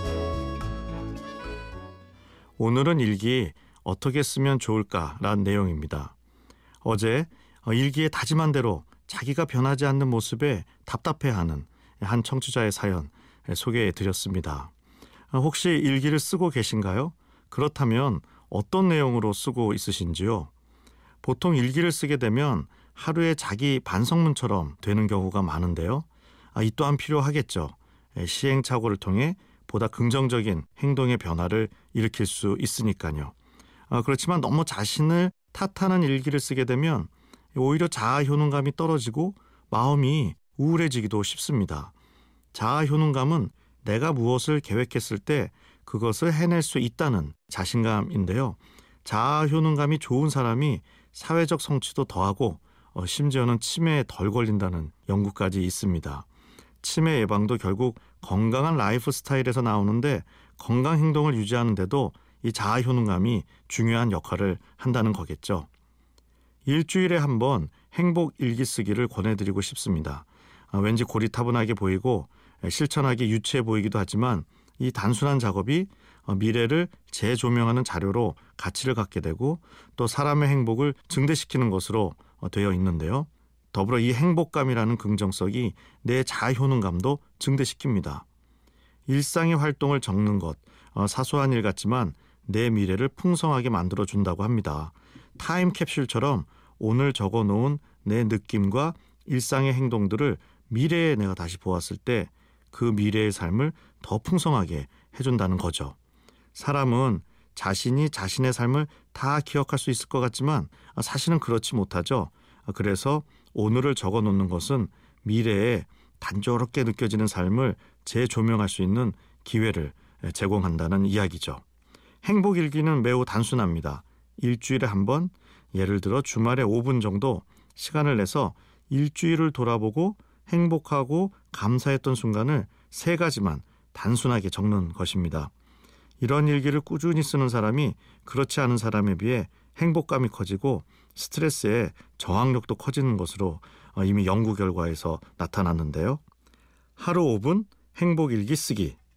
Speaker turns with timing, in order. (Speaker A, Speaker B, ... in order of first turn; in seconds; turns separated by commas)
Speaker A: 2.6-6.2, Speaker A: 6.8-14.7, Speaker A: 15.3-20.5, Speaker A: 21.2-33.3, Speaker A: 33.9-41.9, Speaker A: 42.5-56.3, Speaker A: 56.8-65.7, Speaker A: 66.6-88.2, Speaker A: 89.1-106.0, Speaker A: 106.5-121.6, Speaker A: 122.2-135.5, Speaker A: 136.2-146.2, Speaker A: 147.0-149.0